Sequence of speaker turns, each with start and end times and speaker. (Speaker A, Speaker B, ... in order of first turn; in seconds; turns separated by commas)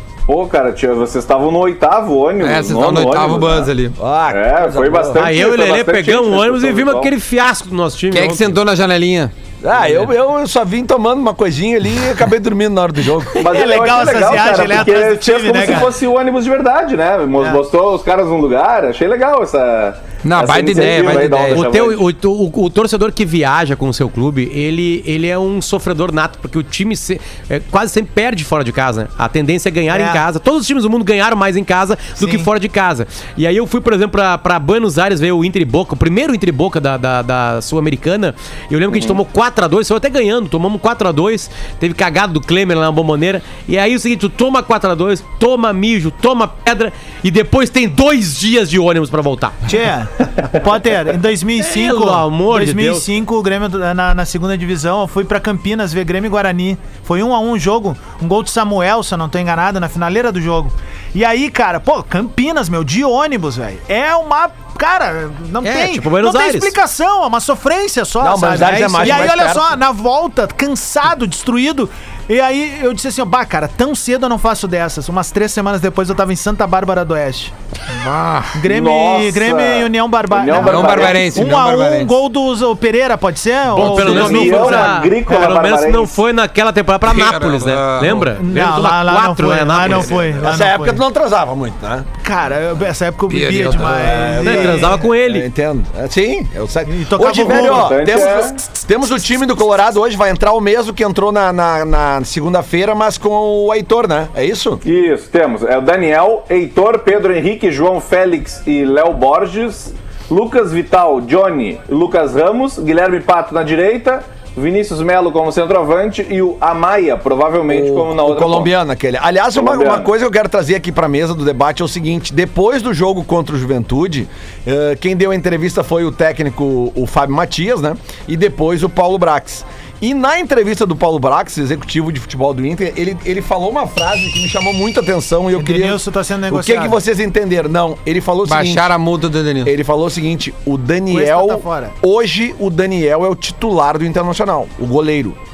Speaker A: 0.3-3.7, Speaker B: 2.4-4.0, Speaker C: 4.0-5.2, Speaker A: 4.3-7.1, Speaker D: 5.2-8.6, Speaker B: 8.1-9.3, Speaker C: 9.6-13.4, Speaker D: 9.8-10.1, Speaker A: 13.4-22.1, Speaker E: 13.4-15.9, Speaker B: 20.2-21.7, Speaker D: 21.5-49.6, Speaker E: 29.9-30.2, Speaker E: 32.2-32.5, Speaker A: 38.9-39.2, Speaker E: 49.7-77.5, Speaker D: 51.6-53.1, Speaker D: 65.6-66.7, Speaker C: 68.2-69.8, Speaker D: 68.8-69.3, Speaker B: 77.9-78.6, Speaker E: 78.5-85.1, Speaker A: 78.7-81.3, Speaker B: 80.5-82.1, Speaker D: 83.7-90.2, Speaker A: 83.8-86.2, Speaker B: 87.0-88.3, Speaker E: 88.4-91.0, Speaker C: 90.2-92.1, Speaker E: 92.2-95.1, Speaker B: 93.3-94.3, Speaker C: 93.9-104.8, Speaker D: 94.4-95.5, Speaker E: 96.9-98.0, Speaker A: 97.4-98.6, Speaker A: 104.8-118.7, Speaker C: 117.7-138.9, Speaker A: 119.5-120.1, Speaker E: 135.6-137.0, Speaker B: 138.4-139.7, Speaker C: 139.7-145.4, Speaker E: 141.1-142.0